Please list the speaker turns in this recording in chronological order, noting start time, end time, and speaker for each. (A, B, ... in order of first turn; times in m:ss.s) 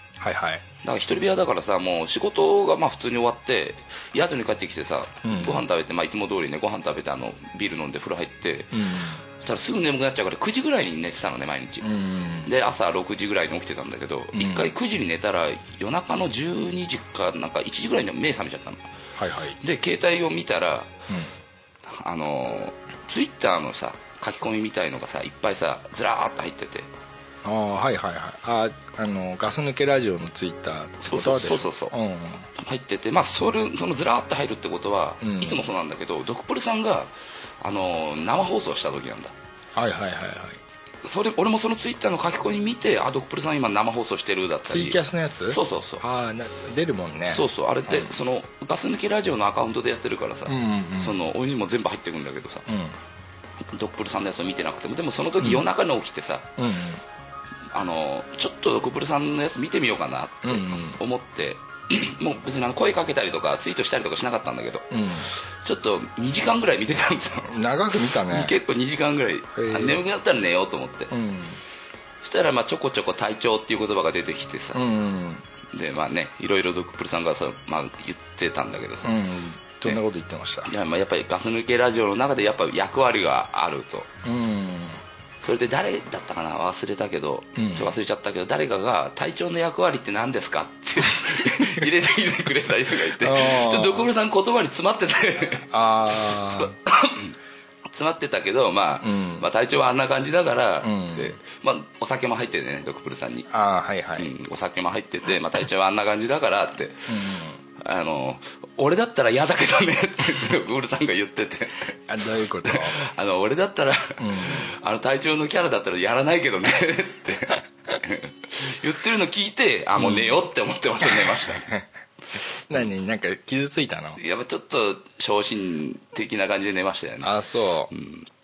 0:00.2-0:00.6 A
0:00.8-0:11.9 B
0:05.2-0:05.6 A
0:08.7-0:09.2 A
0:11.8-0:12.5 A
0:12.4-0:18.9 B
0:14.3-0:14.7 A
0:19.2-0:19.6 A
0:19.6-0:20.9 B
0:21.1-0:21.3 A
0:21.8-0:26.9 B
0:27.4-0:32.5 A
0:31.0-0:31.9 B
0:32.5-0:39.3 B
0:35.2-0:35.7 A
0:39.7-0:40.6 A
0:41.0-0:46.0 B
0:44.6-0:48.2 A
0:47.3-0:52.7 B
0:50.5-0:51.2 A
0:52.7-0:53.0 A
0:53.7-0:56.5 B
0:55.4-0:55.7 A
0:56.6-0:57.0 A
0:57.7-1:07.6 B
1:00.4-1:01.0 A
1:04.9-1:05.3 A
1:07.5-1:08.6 A
1:08.1-1:11.1 B
1:09.5-1:10.0 A
1:11.1-1:11.6 A
1:12.2-1:14.8 B
1:14.7-1:15.4 A
1:15.7-1:19.2 B
1:19.0-1:20.7 A
1:20.6-1:24.1 B
1:24.2-1:25.0 A
1:25.4-1:37.4 B
1:27.6-1:28.0 A
1:31.2-1:31.8 A
1:33.1-1:34.1 A
1:35.7-1:36.8 A
1:37.9-1:43.5 B
1:39.0-1:39.5 A
1:40.8-1:41.4 A
1:43.5-1:44.3 A
1:44.2-1:52.0 B
1:47.1-1:47.6 A
1:52.1-1:53.0 A
1:52.6-2:01.7 B
1:54.2-1:54.7 A
2:00.0-2:00.4 A
2:01.0-2:01.8 A
2:02.7-2:04.2 A
2:04.2-2:07.3 B
2:07.2-2:07.9 A
2:07.9-2:08.3 B